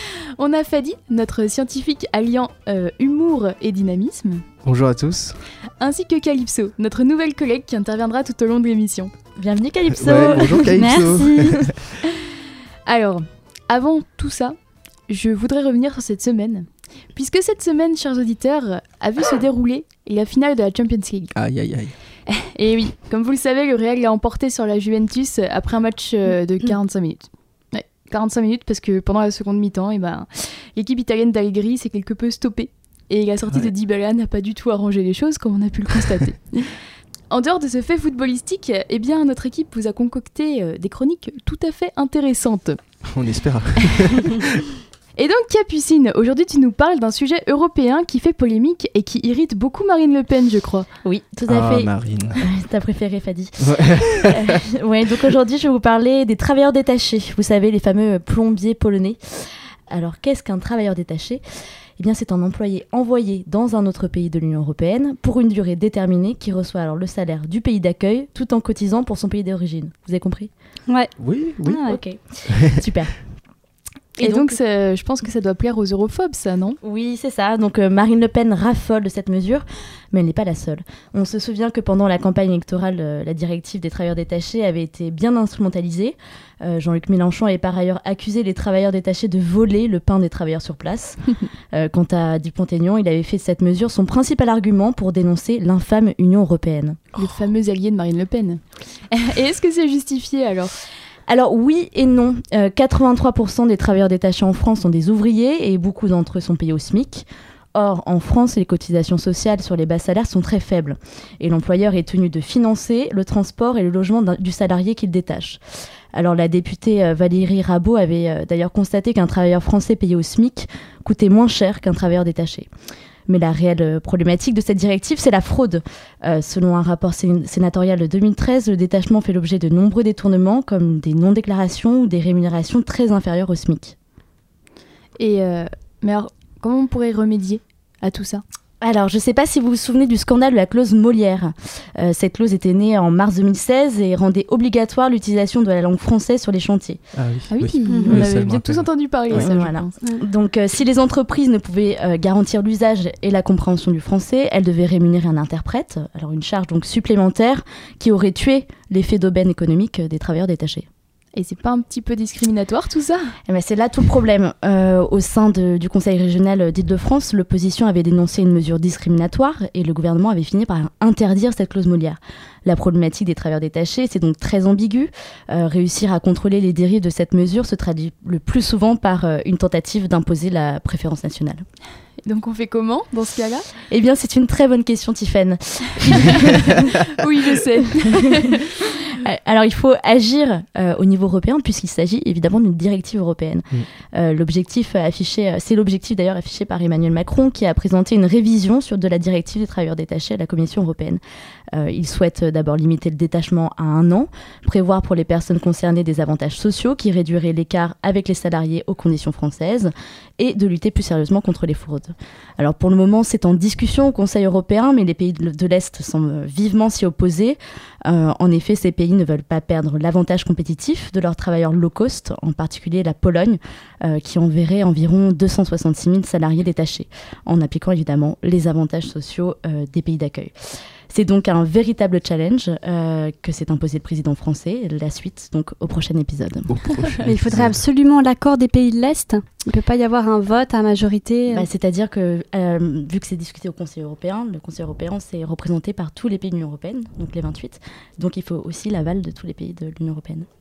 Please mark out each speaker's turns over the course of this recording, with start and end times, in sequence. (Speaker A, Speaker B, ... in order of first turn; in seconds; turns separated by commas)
Speaker A: 0.4-4.4, Speaker B: 4.6-5.4, Speaker A: 5.8-9.1, Speaker C: 9.4-11.7, Speaker B: 9.9-11.7, Speaker D: 10.8-11.5, Speaker A: 12.8-14.6, Speaker A: 15.1-21.3, Speaker B: 21.3-21.9, Speaker A: 22.3-36.7, Speaker A: 37.3-42.8, Speaker B: 43.1-44.6, Speaker A: 45.1-50.9, Speaker C: 51.0-61.4, Speaker B: 51.5-52.4, Speaker B: 53.6-54.6, Speaker C: 62.0-70.5, Speaker D: 70.9-71.1, Speaker B: 71.2-71.8, Speaker D: 71.6-72.0, Speaker C: 71.8-73.2, Speaker A: 74.2-76.8, Speaker C: 74.2-74.6, Speaker C: 76.8-97.0, Speaker A: 97.1-100.7, Speaker C: 101.3-115.6, Speaker C: 116.1-122.7, Speaker C: 123.3-133.9, Speaker A: 135.2-138.4, Speaker C: 138.8-147.0, Speaker B: 147.1-149.5, Speaker A: 147.5-149.9, Speaker D: 147.9-148.2, Speaker C: 149.3-160.9, Speaker A: 161.3-163.3, Speaker C: 163.5-181.6, Speaker A: 182.2-183.7, Speaker C: 183.9-186.9, Speaker A: 187.0-188.4, Speaker C: 188.0-201.2, Speaker C: 201.7-230.5, Speaker C: 231.1-236.8, Speaker B: 236.7-237.8, Speaker D: 237.2-241.6, Speaker C: 241.5-250.5